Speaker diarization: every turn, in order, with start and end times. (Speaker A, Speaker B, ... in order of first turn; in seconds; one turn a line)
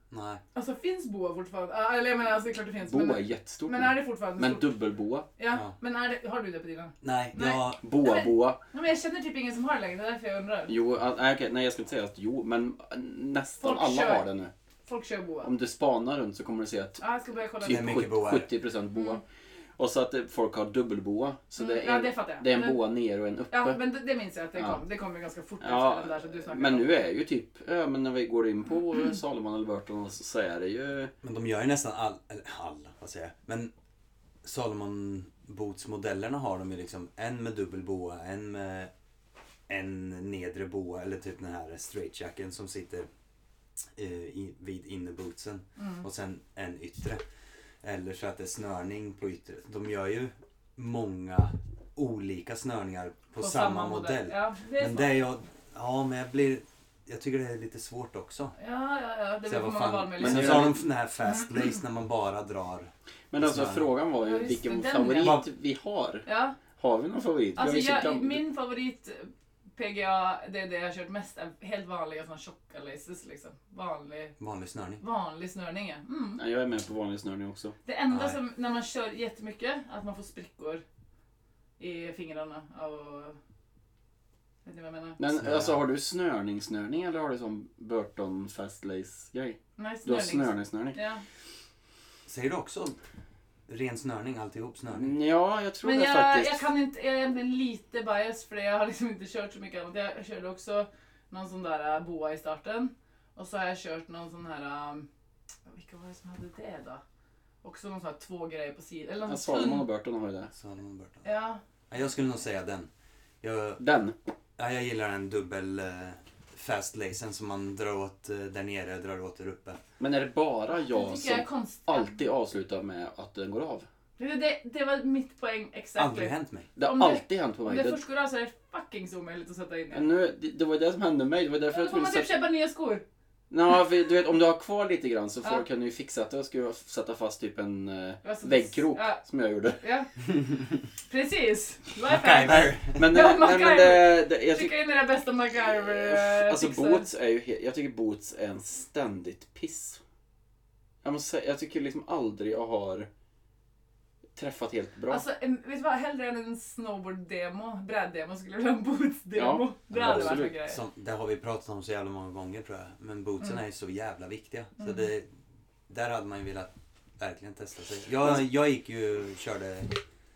Speaker A: 0.1-0.4
Speaker B: 0.5-4.7
Speaker C: 2.9-5.3
Speaker B: 5.4-10.8
Speaker A: 7.0-7.8
Speaker C: 7.8-8.6
Speaker C: 10.7-14.5
Speaker B: 13.6-14.2
Speaker B: 14.9-15.5
Speaker C: 15.4-17.0
Speaker B: 17.0-18.0
Speaker C: 17.6-19.2
Speaker A: 17.6-18.5
Speaker C: 19.8-23.8
Speaker B: 21.6-22.8
Speaker B: 23.5-26.9
Speaker C: 25.6-31.1
Speaker A: 31.2-33.7
Speaker A: 34.4-38.9
Speaker A: 39.7-43.1
Speaker A: 44.0-47.2
Speaker B: 45.8-46.0
Speaker A: 47.8-58.5
Speaker B: 53.4-55.1
Speaker B: 58.6-60.8
Speaker A: 59.5-63.9
Speaker C: 60.2-60.8
Speaker C: 63.3-66.2
Speaker B: 64.2-65.4
Speaker B: 66.2-66.6
Speaker C: 66.8-68.4
Speaker B: 67.6-74.4
Speaker A: 74.4-75.0
Speaker B: 75.0-76.4
Speaker C: 76.4-77.8
Speaker B: 77.8-80.8
Speaker A: 78.1-78.4
Speaker B: 81.8-83.4
Speaker B: 84.6-85.2
Speaker C: 85.2-91.0
Speaker A: 85.4-85.8
Speaker B: 89.8-91.2
Speaker A: 92.2-93.0
Speaker A: 93.7-95.1
Speaker C: 94.9-96.7
Speaker B: 95.8-105.1
Speaker B: 105.7-107.0
Speaker B: 107.6-109.9
Speaker C: 109.3-110.5
Speaker A: 110.5-111.2
Speaker B: 111.2-111.6
Speaker A: 111.9-112.9
Speaker A: 113.4-113.8
Speaker C: 113.8-114.1
Speaker A: 114.6-119.8
Speaker C: 120.0-123.9
Speaker B: 120.7-122.2
Speaker B: 124.2-130.1
Speaker A: 126.0-126.7
Speaker C: 126.8-128.0
Speaker C: 129.9-132.3
Speaker B: 131.7-133.0
Speaker C: 133.5-139.8
Speaker B: 138.2-139.2
Speaker B: 139.8-140.1
Speaker B: 141.1-147.1
Speaker A: 142.1-143.0
Speaker C: 142.9-144.7
Speaker C: 145.6-150.0
Speaker C: 151.0-153.1
Speaker C: 154.4-155.2
Speaker B: 155.1-160.8
Speaker C: 159.4-160.5
Speaker A: 159.9-165.3
Speaker A: 165.9-170.0